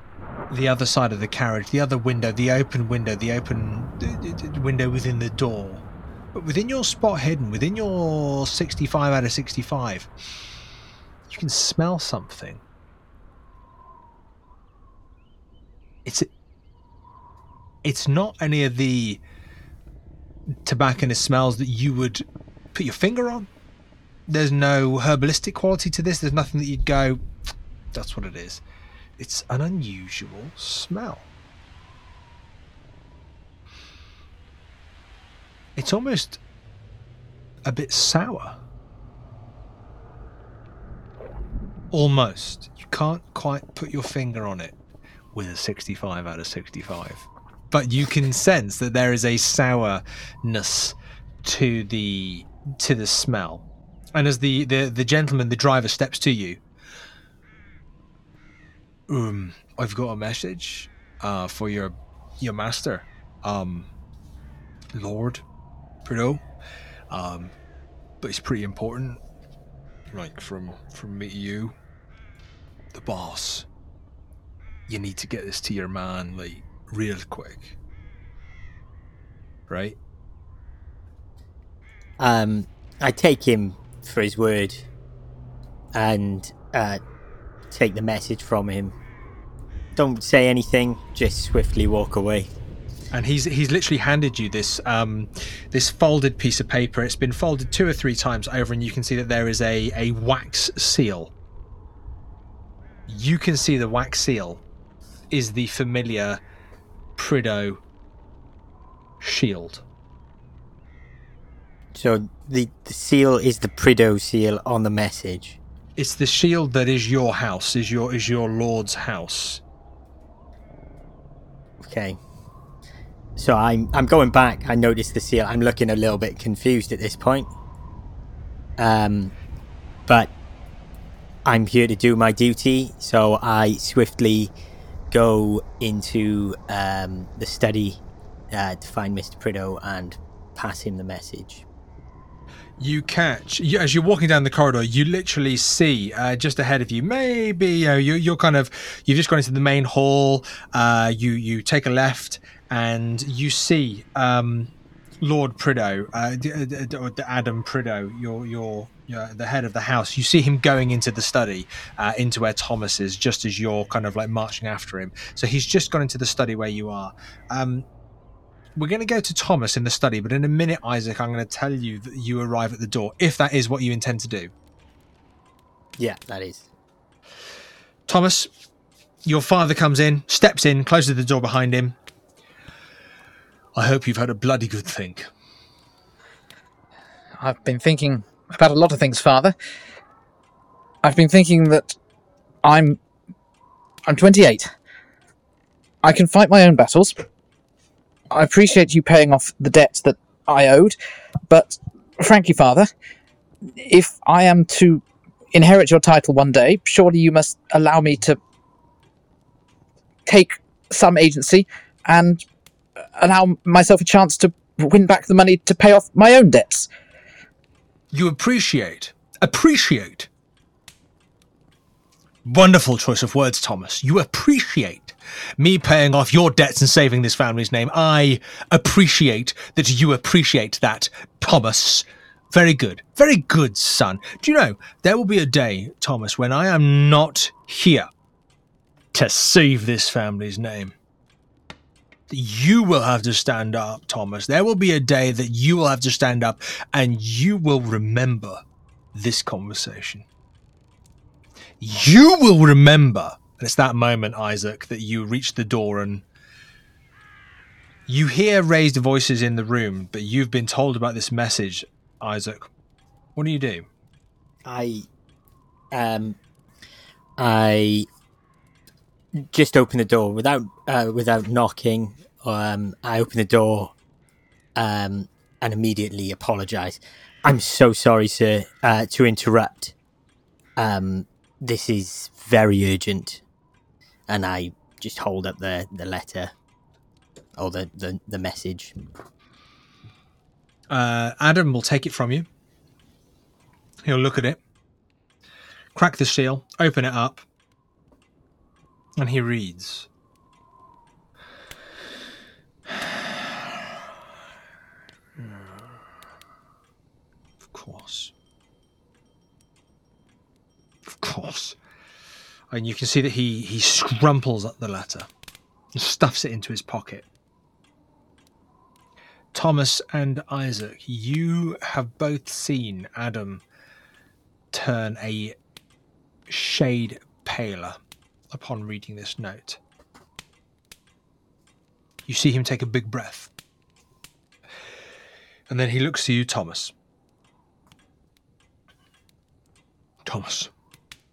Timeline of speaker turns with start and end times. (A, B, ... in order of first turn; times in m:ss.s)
0:00.5-0:10.1 A
0:11.3-0:12.6 A
0:17.8-0:19.2 A
0:20.6-0:23.5 A
0:24.3-0:27.2 A
0:27.9-0:28.6 A
0:29.2-0:31.3 A
0:35.8-0:36.4 A
0:37.6-0:38.6 A
0:41.9-0:44.7 A
0:45.3-0:56.6 A
0:59.1-1:03.9 A
1:04.9-1:05.4 A
1:06.0-1:06.4 A
1:07.1-1:07.5 A
1:08.2-1:09.2 A
1:10.1-1:11.7 A
1:12.9-1:13.6 A
1:14.9-1:17.7 A
1:19.7-1:20.0 A
1:22.2-1:24.8 B
1:25.9-1:27.0 B
1:27.7-1:29.0 B
1:30.0-1:32.5 B
1:33.1-1:41.3 A
1:43.1-1:44.6 A
1:45.3-1:46.4 A
1:47.2-1:47.8 A
1:49.2-1:49.8 A
1:51.9-1:55.6 B
1:56.0-1:59.6 A
2:01.8-2:02.2 B
2:03.4-2:07.5 B
2:08.8-2:09.3 B
2:10.1-2:10.3 B
2:11.4-2:14.5 B
2:15.1-2:21.6 B
2:22.8-2:47.8 A
2:48.8-2:54.5 A
2:56.0-2:56.7 B
2:58.1-2:58.5 A
2:59.2-3:01.9 A
3:03.7-3:05.3 A
3:07.4-3:09.5 C
3:11.0-3:12.0 C
3:12.6-3:13.0 C
3:14.1-3:14.7 C
3:16.0-3:17.2 C
3:18.3-3:21.0 C
3:21.5-3:22.9 C
3:23.8-3:28.4 C
3:30.2-3:32.4 C
3:33.2-3:36.9 C
3:38.1-3:40.3 A
3:42.4-3:58.1 A
3:59.1-4:00.9 A
4:02.3-4:08.6 A
4:09.1-4:10.2 A
4:11.8-4:16.2 A
4:18.1-4:22.7 A
4:23.4-4:23.9 A
4:24.6-4:25.1 B
4:25.9-4:26.4 B
4:27.4-4:28.1 B
4:29.4-4:33.9 B
4:34.8-4:39.9 B
4:40.8-4:43.4 B
4:44.3-4:46.5 B
4:47.6-4:49.0 B
4:50.9-4:52.5 A
4:54.0-4:54.6 A
4:55.9-4:57.4 A
4:59.2-5:00.1 A
5:02.9-5:03.3 A
5:05.4-5:06.0 A
5:07.7-5:08.3 A
5:11.1-5:11.8 A
5:12.7-5:15.3 A
5:15.9-5:17.2 A
5:19.5-5:23.6 A
5:24.7-5:25.5 A
5:26.5-5:28.0 A
5:28.5-5:29.8 A
5:32.2-5:33.5 A
5:35.7-5:36.9 A
5:40.2-5:40.7 A